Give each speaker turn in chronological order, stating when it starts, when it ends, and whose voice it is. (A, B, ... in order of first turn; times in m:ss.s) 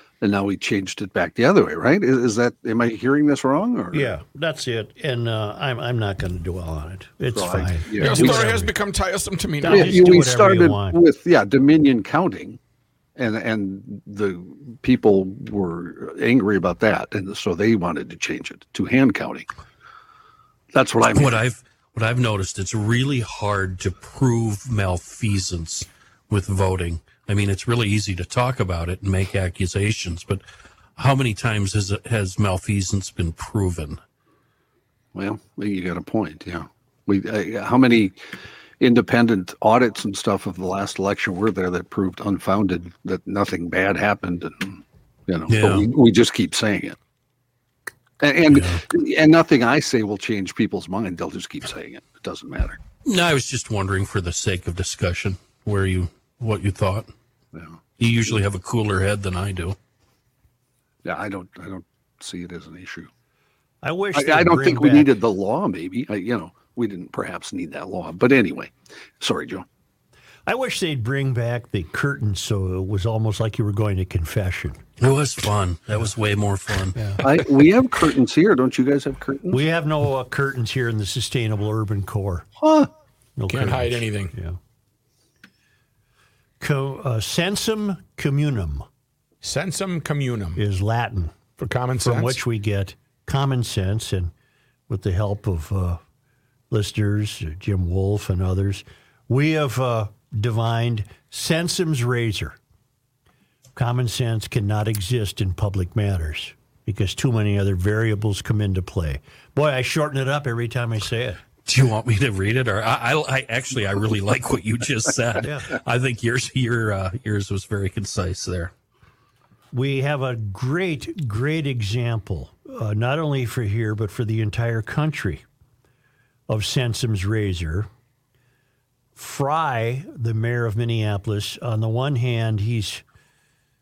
0:00.2-0:04.1 A
0:03.9-0:08.7 B
0:07.3-0:08.5 A
0:08.0-0:10.2 C
0:09.6-0:11.0 B
0:09.6-0:12.6 A
0:13.2-0:19.5 A
0:20.7-0:21.4 A
0:21.1-0:30.4 D
0:31.0-0:34.0 D
0:35.1-0:38.2 A
0:38.8-0:47.0 A
0:45.5-0:45.9 D
0:48.2-0:52.8 A
0:48.5-0:48.8 D
0:53.0-0:57.1 D
0:57.5-0:57.8 A
0:58.0-0:59.8 D
1:01.0-1:03.1 A
1:03.8-1:05.1 B
1:04.1-1:09.6 A
1:10.5-1:14.8 B
1:15.0-1:17.2 D
1:16.9-1:17.2 B
1:17.2-1:19.6 A
1:19.5-1:22.4 B
1:22.6-1:22.9 A
1:23.4-1:24.6 B
1:23.5-1:24.3 C
1:26.6-1:28.8 B
1:29.4-1:30.6 C
1:30.6-1:31.3 B
1:31.6-1:32.4 C
1:32.0-1:34.3 B
1:34.9-1:36.0 B
1:36.7-1:42.6 B
1:43.8-1:51.4 B
1:51.6-1:58.7 D
1:55.4-1:55.7 B
1:59.7-2:05.4 B
2:06.5-2:07.9 B
2:09.2-2:13.0 B